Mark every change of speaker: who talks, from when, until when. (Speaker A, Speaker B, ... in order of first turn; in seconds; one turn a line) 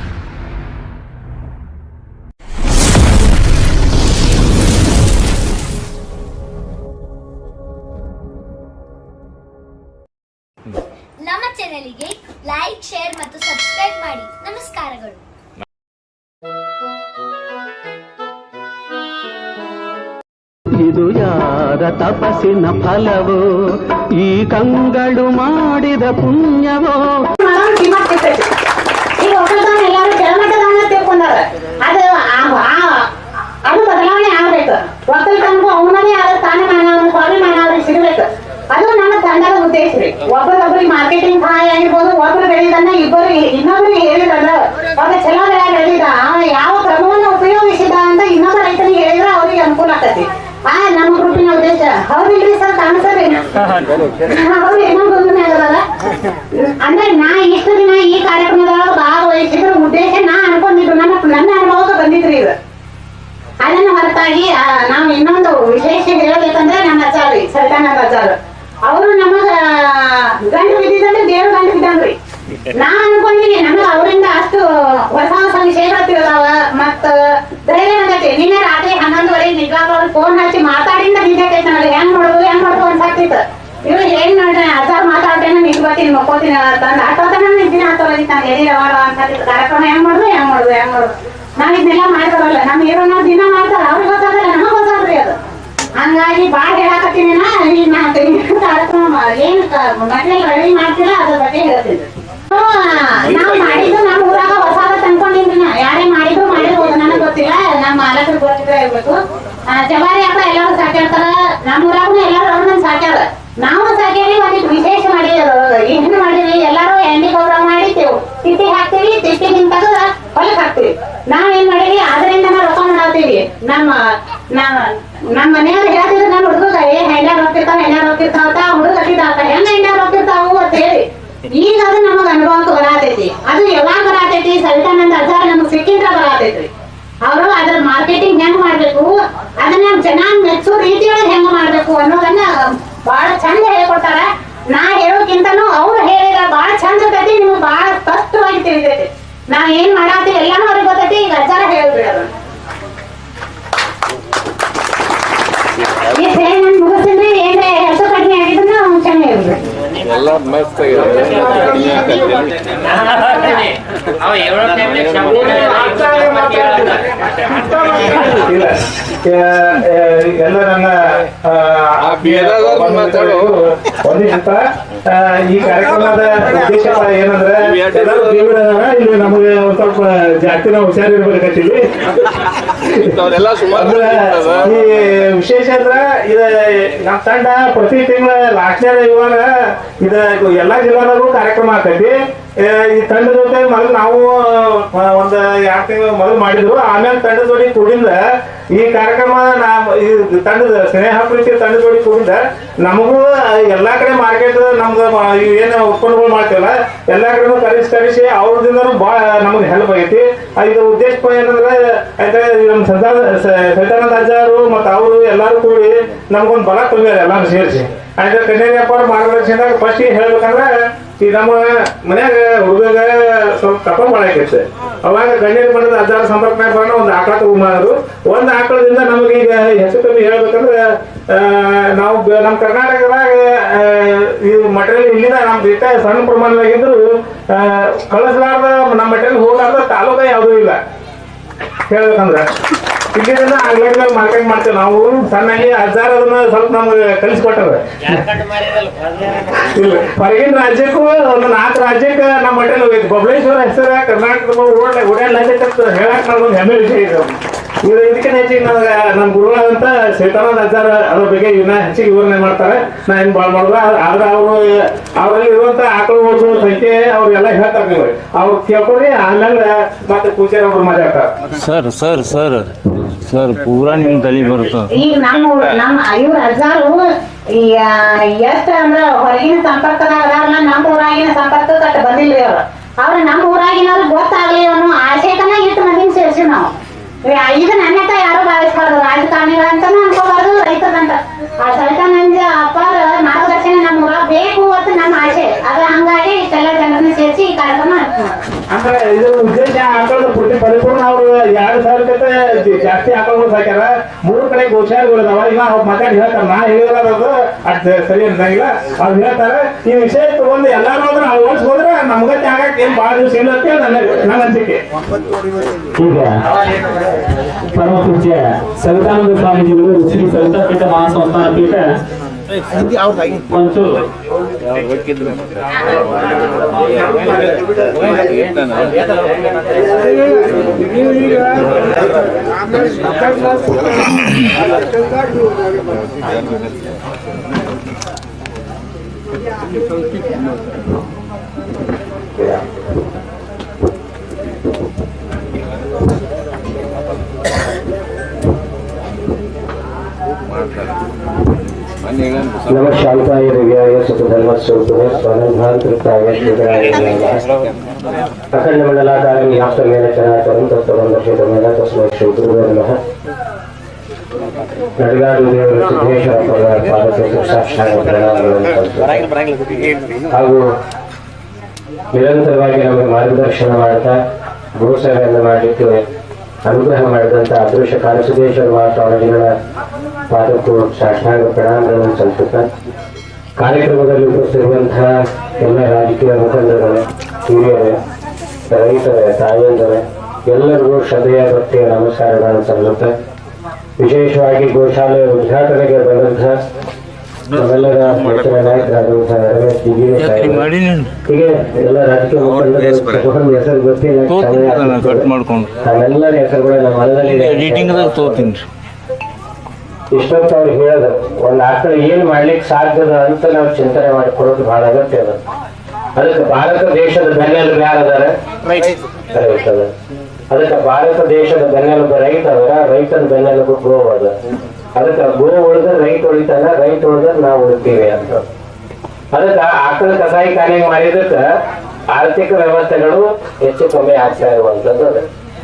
Speaker A: 11.2-15.2
Speaker B: 20.8-23.4
Speaker B: 24.2-27.2
Speaker C: 27.3-28.5
Speaker C: 29.2-33.1
Speaker C: 33.6-53.5
Speaker C: 54.2-55.8
Speaker C: 56.5-62.5
Speaker C: 63.6-72.2
Speaker C: 72.7-95.3
Speaker C: 96.0-136.7
Speaker C: 137.2-152.3
Speaker C: 156.1-159.6
Speaker D: 160.0-162.7
Speaker E: 162.8-167.1
Speaker F: 168.3-181.8
Speaker D: 172.0-173.5
Speaker D: 178.0-178.3
Speaker D: 183.2-184.7
Speaker F: 183.7-189.5
Speaker F: 190.0-198.2
Speaker F: 198.7-240.8
Speaker F: 241.9-242.5
Speaker F: 243.1-247.9
Speaker E: 248.0-249.7
Speaker F: 249.7-271.3
Speaker G: 271.6-274.9
Speaker C: 274.9-286.7
Speaker C: 287.2-298.4
Speaker F: 298.7-314.8
Speaker H: 316.0-316.4
Speaker H: 317.7-321.9
Speaker H: 323.5-324.0
Speaker D: 324.6-326.0
Speaker D: 327.9-329.0
Speaker E: 352.7-357.4
Speaker E: 358.5-363.0
Speaker E: 365.0-369.2
Speaker E: 370.3-370.6
Speaker E: 372.1-374.2
Speaker E: 374.8-376.0
Speaker E: 376.6-379.5
Speaker E: 380.3-382.7
Speaker E: 383.6-387.9
Speaker E: 388.7-393.1
Speaker E: 394.0-396.6
Speaker E: 397.5-400.7
Speaker G: 400.2-401.1
Speaker E: 401.2-405.3
Speaker G: 402.6-403.2
Speaker G: 404.3-405.7
Speaker E: 405.8-408.5
Speaker G: 407.3-408.6
Speaker E: 410.1-415.4
Speaker E: 416.2-418.3
Speaker E: 419.3-419.9
Speaker E: 420.5-424.3
Speaker E: 424.9-428.4
Speaker E: 429.3-431.4
Speaker E: 432.1-435.2